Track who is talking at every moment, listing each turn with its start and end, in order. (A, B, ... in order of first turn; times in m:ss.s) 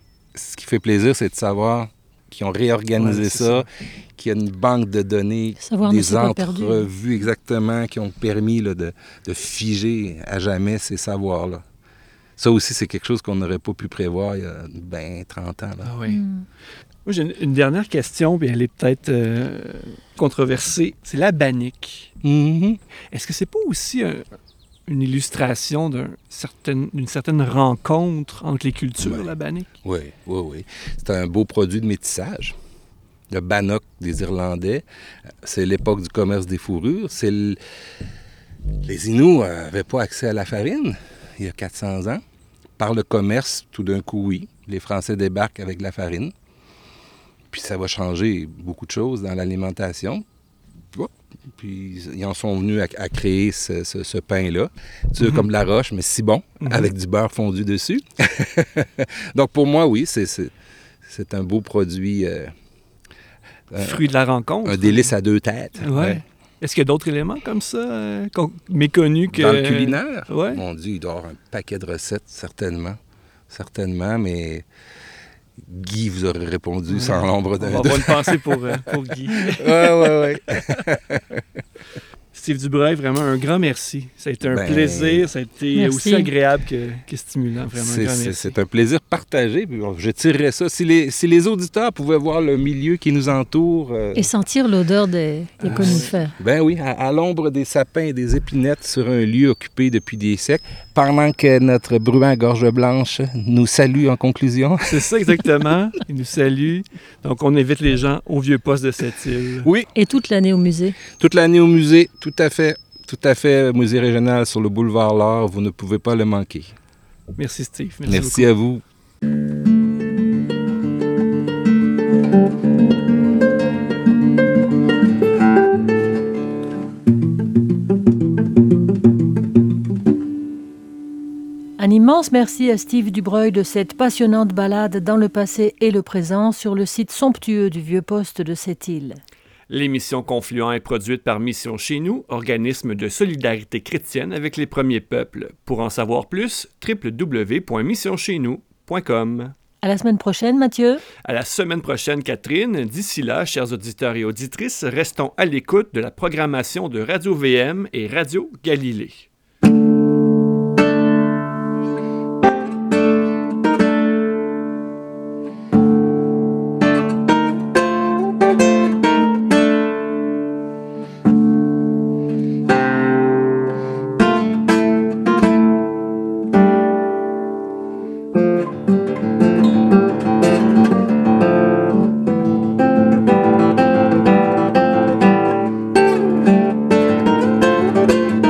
0:00.3-0:11.6 A
0:03.0-0:03.6 B
0:05.6-0:06.8 C
0:12.4-0:15.9 A
0:15.8-0:16.2 B
0:16.1-0:16.4 C
0:17.0-0:22.1 B
0:22.2-0:22.8 A
0:23.1-0:24.2 B
0:24.9-0:29.7 B
0:29.0-0:32.6 A
0:33.3-0:34.8 A
0:35.4-0:37.6 A
0:38.8-0:42.2 A
0:42.8-0:46.3 A
0:47.5-0:50.2 A
0:50.9-1:00.5 A
0:56.6-0:56.9 B
1:01.0-1:02.5 A
1:03.7-1:04.0 A
1:03.8-1:05.1 B
1:04.6-1:06.2 A
1:05.8-1:10.6 B
1:09.3-1:13.0 A
1:13.5-1:14.6 A
1:15.6-1:18.8 A
1:16.9-1:20.8 B
1:19.3-1:21.4 A
1:22.3-1:28.5 B
1:24.5-1:25.3 A
1:25.7-1:26.3 C
1:27.7-1:34.3 A
1:34.1-1:36.3 C
1:35.6-1:36.1 B
1:35.8-1:45.1 A
1:44.8-1:49.7 B
1:49.6-1:49.9 A
1:49.9-1:51.0 C
1:51.1-1:56.8 A
1:57.4-1:58.5 B
1:58.0-1:58.8 A
2:11.8-2:19.2 C
2:19.7-2:29.5 B
2:29.8-2:31.0 C
2:31.2-2:39.3 B